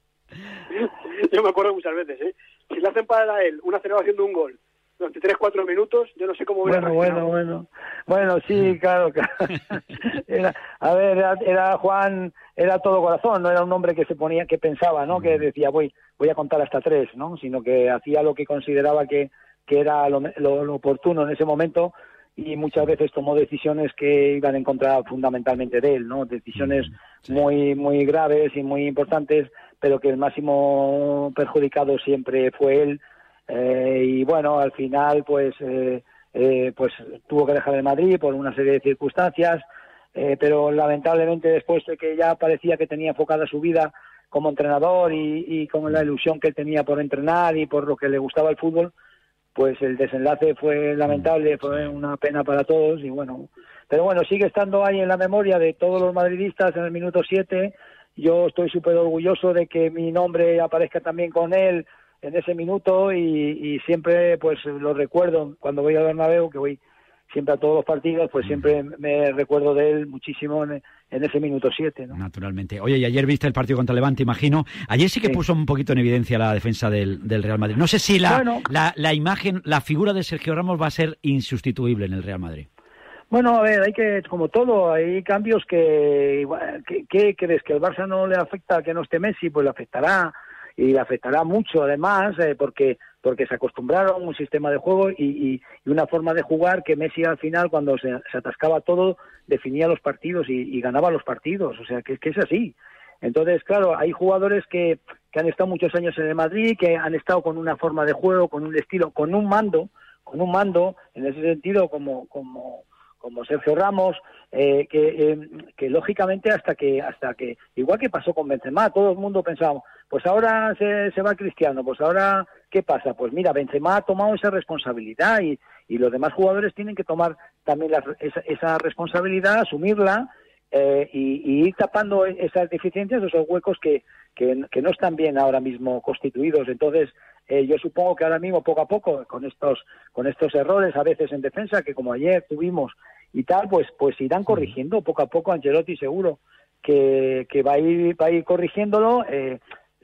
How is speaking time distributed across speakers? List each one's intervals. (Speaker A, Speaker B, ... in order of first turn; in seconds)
Speaker A: 0.7-7.2
Speaker B: 6.6-39.6, 40.1-48.9, 49.5-66.8, 67.3-72.2, 78.2-78.7, 83.3-149.6
Speaker C: 15.2-15.4, 26.6-27.4, 51.1-51.9, 72.1-82.7